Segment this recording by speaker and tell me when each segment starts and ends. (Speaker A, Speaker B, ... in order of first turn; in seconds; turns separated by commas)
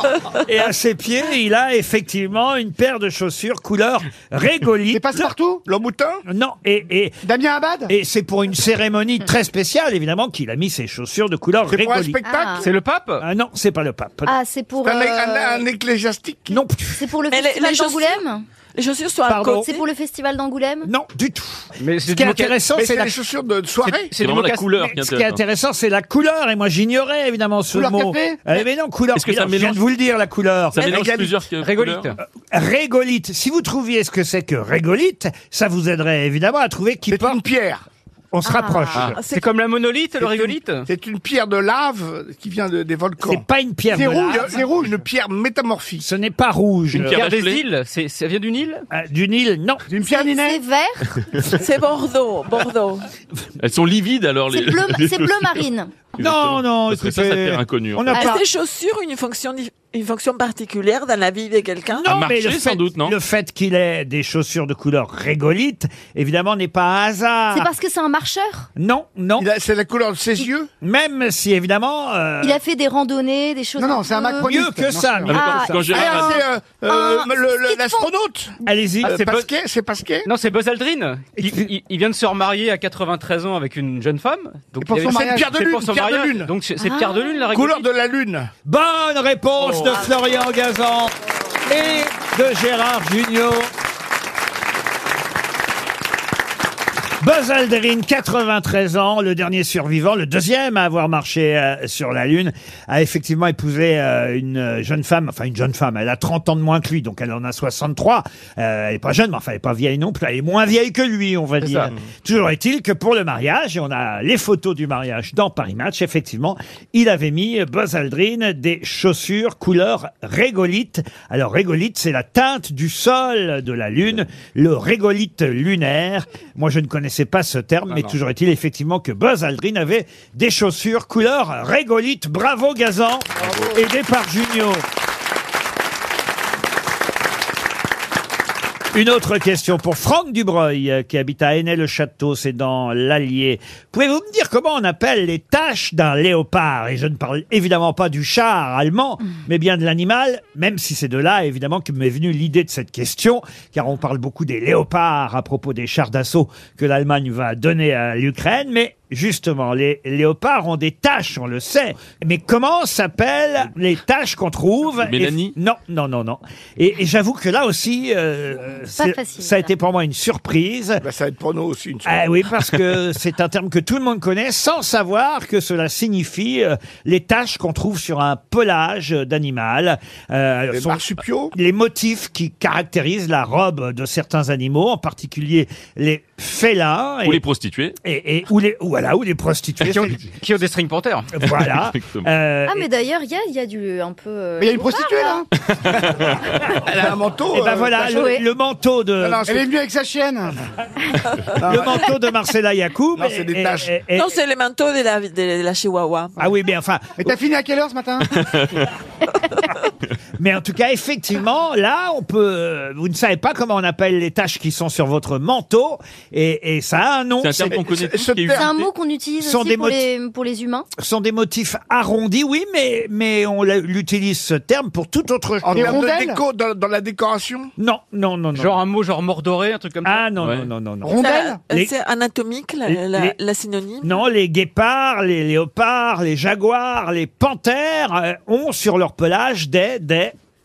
Speaker A: 0.4-5.3, Speaker B: 4.9-5.6, Speaker C: 5.7-6.2, Speaker A: 6.2-7.2, Speaker B: 7.2-7.9, Speaker A: 7.9-12.2, Speaker C: 11.7-12.7, Speaker D: 12.2-12.7, Speaker E: 12.6-13.2, Speaker A: 13.2-14.3, Speaker D: 14.2-15.6, Speaker C: 14.8-16.6, Speaker A: 16.5-17.0, Speaker D: 16.9-18.4, Speaker F: 17.3-19.9, Speaker A: 19.3-19.7, Speaker D: 19.5-20.9, Speaker A: 20.8-23.1, Speaker E: 21.8-22.6, Speaker C: 22.7-24.1, Speaker E: 23.8-24.7, Speaker G: 24.2-25.4, Speaker A: 24.8-30.9, Speaker B: 27.7-28.4, Speaker G: 29.1-29.8, Speaker G: 30.7-32.1, Speaker C: 30.8-31.3, Speaker E: 31.6-32.2, Speaker A: 32.5-37.4, Speaker C: 37.1-37.8, Speaker A: 38.3-39.2, Speaker D: 38.4-39.0, Speaker F: 39.2-39.5, Speaker E: 39.2-40.9, Speaker C: 40.2-43.4, Speaker A: 43.2-44.6, Speaker B: 43.9-44.9, Speaker C: 44.0-46.0, Speaker A: 46.0-47.2, Speaker G: 46.9-47.6, Speaker E: 47.0-48.8, Speaker A: 48.9-49.8, Speaker B: 49.9-50.6, Speaker D: 50.0-51.1, Speaker F: 51.5-53.0, Speaker G: 53.6-55.6, Speaker D: 54.5-55.9, Speaker G: 56.2-58.1, Speaker A: 56.2-58.4, Speaker F: 58.1-62.1, Speaker D: 58.1-58.4, Speaker A: 61.9-67.7, Speaker G: 62.1-63.1, Speaker D: 67.5-68.7, Speaker A: 68.8-69.5, Speaker C: 69.4-70.7, Speaker A: 70.8-72.6, Speaker D: 72.4-74.5, Speaker B: 73.8-75.3, Speaker A: 74.4-75.4, Speaker D: 75.3-78.1, Speaker G: 75.3-76.4, Speaker C: 75.9-80.3, Speaker A: 78.6-79.2, Speaker E: 79.0-79.5, Speaker E: 80.2-87.9, Speaker A: 81.4-81.7, Speaker B: 84.8-85.5, Speaker C: 85.0-86.5, Speaker D: 86.8-87.5, Speaker C: 87.5-88.5, Speaker A: 88.6-91.1, Speaker A: 91.7-93.7, Speaker A: 97.2-134.8, Speaker E: 111.6-111.9, Speaker A: 138.9-171.0, Speaker G: 165.0-165.5, Speaker D: 168.9-169.7, Speaker C: 171.0-172.1, Speaker A: 172.0-187.4, Speaker C: 180.7-181.5, Speaker G: 187.2-187.9, Speaker A: 188.0-190.2, Speaker E: 189.8-191.3, Speaker A: 191.3-192.9, Speaker G: 191.5-192.3, Speaker D: 192.7-195.4, Speaker B: 194.6-195.5, Speaker G: 195.8-196.6, Speaker C: 196.8-198.3, Speaker A: 197.5-199.4, Speaker D: 198.0-198.4, Speaker C: 199.2-199.7, Speaker B: 199.4-200.6, Speaker C: 201.6-202.1, Speaker A: 201.6-204.3, Speaker C: 203.2-204.0, Speaker F: 204.1-206.4, Speaker A: 206.4-207.3, Speaker B: 207.2-208.3, Speaker G: 208.3-208.9, Speaker A: 210.4-217.8, Speaker G: 217.4-218.8, Speaker C: 217.7-218.7, Speaker D: 218.5-220.9, Speaker A: 219.4-220.1, Speaker A: 220.9-226.1, Speaker C: 225.6-227.7, Speaker B: 225.7-226.4, Speaker A: 227.8-228.8, Speaker E: 228.5-230.2, Speaker A: 230.0-231.2, Speaker G: 230.4-230.7, Speaker B: 231.0-231.6, Speaker F: 231.2-234.2, Speaker A: 232.9-233.3, Speaker A: 234.0-240.3